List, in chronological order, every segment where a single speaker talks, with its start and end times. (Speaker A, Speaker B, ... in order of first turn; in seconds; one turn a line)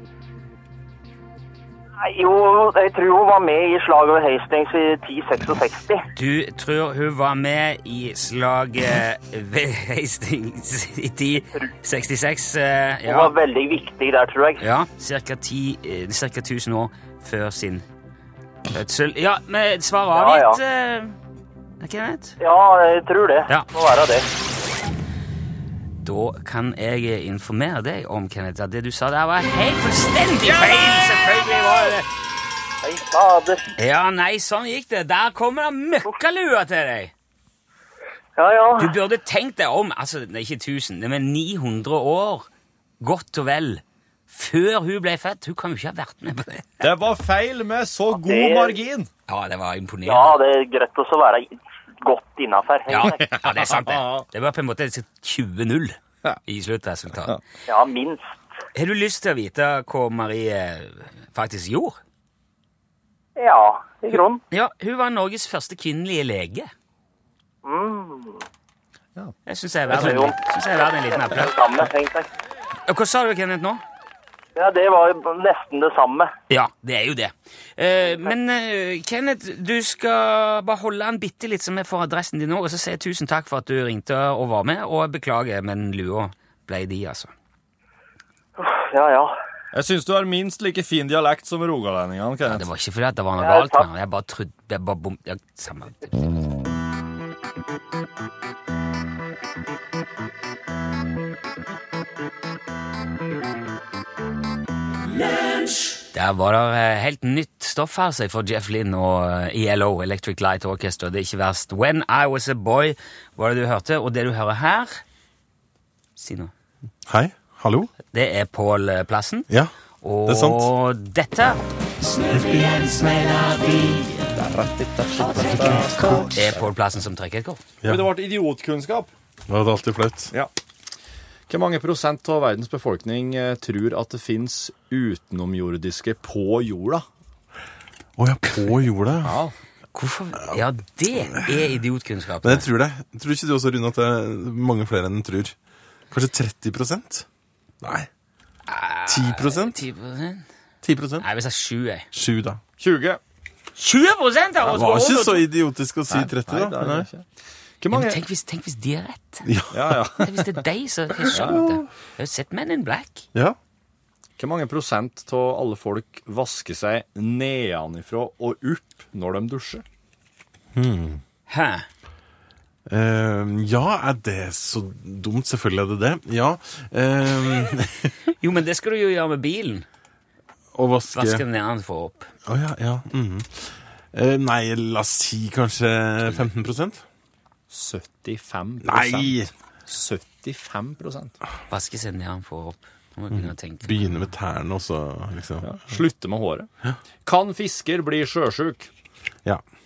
Speaker A: 2.0-6.0
Speaker B: 6.1-13.4
Speaker A: 13.0-14.6
Speaker B: 14.6-17.8
Speaker B: 18.7-21.1
Speaker A: 20.1-20.6
Speaker B: 21.8-22.4
Speaker A: 22.4-24.2
Speaker B: 26.0-32.1
Speaker A: 32.8-33.7
Speaker B: 33.8-37.1
Speaker A: 38.4-38.9
Speaker B: 38.8-42.5
Speaker B: 43.0-46.9
Speaker C: 46.8-49.1
Speaker A: 48.1-48.8
Speaker B: 49.3-50.4
Speaker A: 50.0-51.5
Speaker A: 52.0-53.2
Speaker B: 52.9-57.4
Speaker C: 53.0-54.2
Speaker A: 57.7-58.4
Speaker B: 58.7-62.0
Speaker A: 63.4-64.4
Speaker B: 64.1-66.7
Speaker A: 67.6-68.4
Speaker B: 69.5-71.6
Speaker A: 69.9-70.4
Speaker A: 71.2-72.3
Speaker B: 72.9-73.8
Speaker A: 74.5-76.3
Speaker B: 76.5-87.3
Speaker A: 88.6-89.3
Speaker C: 89.7-92.7
Speaker B: 92.4-96.5
Speaker A: 93.4-93.8
Speaker B: 106.1-115.0
Speaker B: 116.2-116.5
Speaker D: 117.1-117.9
Speaker B: 118.1-119.5
Speaker B: 120.0-121.6
Speaker D: 120.2-120.7
Speaker B: 122.1-124.2
Speaker C: 124.3-126.7
Speaker B: 126.3-127.6
Speaker C: 127.8-129.1
Speaker D: 129.5-130.3
Speaker C: 131.5-137.0
Speaker D: 138.2-139.4
Speaker C: 139.2-139.5
Speaker B: 139.9-142.7
Speaker D: 142.4-145.5
Speaker D: 146.1-147.2
Speaker D: 147.8-148.1
Speaker B: 148.7-150.4
Speaker D: 149.1-149.8
Speaker D: 150.8-151.2
Speaker B: 151.2-152.1
Speaker D: 152.1-152.6
Speaker C: 152.8-153.2
Speaker B: 153.8-155.4
Speaker D: 154.7-157.1
Speaker C: 156.1-157.3
Speaker C: 157.8-158.2
Speaker B: 157.9-159.5
Speaker D: 159.4-159.8
Speaker C: 159.7-160.4
Speaker B: 160.2-163.2
Speaker C: 161.3-161.6
Speaker D: 161.3-161.8
Speaker C: 164.4-169.8
Speaker D: 170.7-171.2
Speaker B: 171.5-171.8
Speaker D: 172.9-178.1
Speaker B: 178.4-179.8
Speaker D: 180.7-181.4
Speaker B: 181.1-182.3
Speaker D: 182.5-187.0
Speaker B: 186.2-186.5
Speaker C: 187.7-191.3
Speaker D: 188.8-189.5
Speaker B: 191.7-194.2
Speaker D: 193.3-195.9
Speaker C: 195.6-196.7
Speaker C: 197.2-198.9